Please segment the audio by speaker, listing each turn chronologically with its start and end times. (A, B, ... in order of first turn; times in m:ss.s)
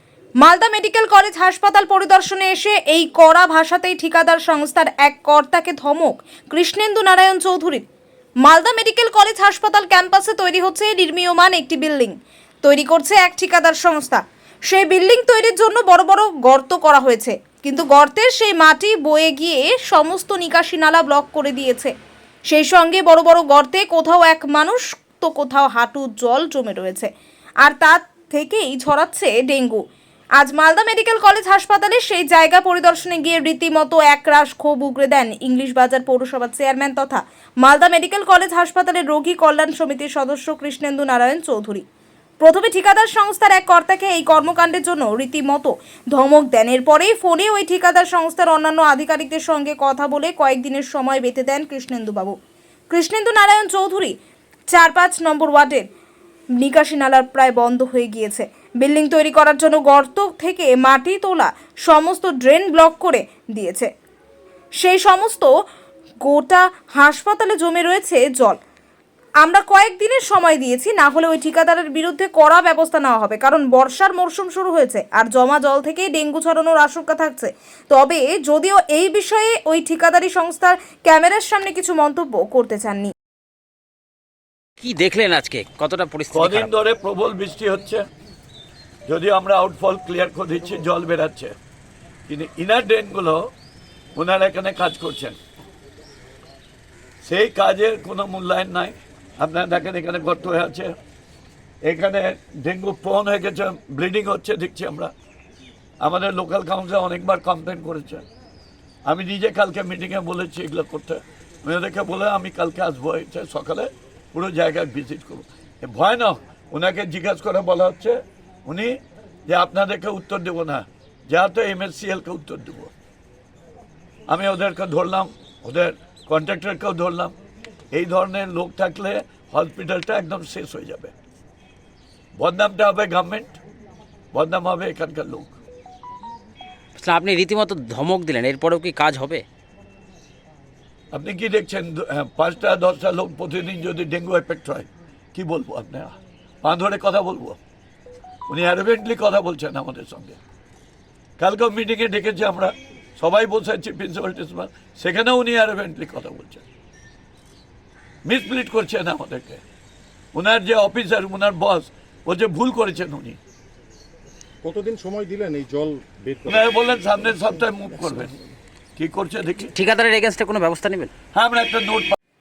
0:00.4-0:07.8 A
0:08.4-0:21.9 A
0:22.5-0:27.1 A
0:27.6-0:29.8 A
0:30.4-0:41.8 A
0:42.4-0:52.4 A
0:52.9-0:54.2 A
0:54.7-0:55.9 A
0:56.6-1:03.9 A
1:04.8-1:05.5 A
1:06.2-1:08.6 A
1:09.4-1:23.1 A
1:24.8-1:26.7 B
1:26.3-1:28.0 C
1:29.1-1:31.5 C
1:32.3-1:33.5 C
1:34.2-1:35.4 C
1:37.2-1:40.9 C
1:41.8-1:45.1 C
1:46.0-1:48.2 C
1:49.0-1:59.0 C
1:59.5-2:02.9 C
2:04.3-2:07.3 C
2:07.9-2:11.1 C
2:12.4-2:13.6 C
2:14.3-2:15.5 C
2:17.0-2:19.4 B
2:21.1-2:27.6 C
2:28.5-2:30.4 C
2:31.4-2:36.6 C
2:38.2-2:39.6 C
2:40.3-2:43.4 C
2:44.6-2:48.3 D
2:46.4-2:48.3 C
2:49.0-2:49.7 C
2:49.7-2:51.1 B
2:51.3-2:52.2 C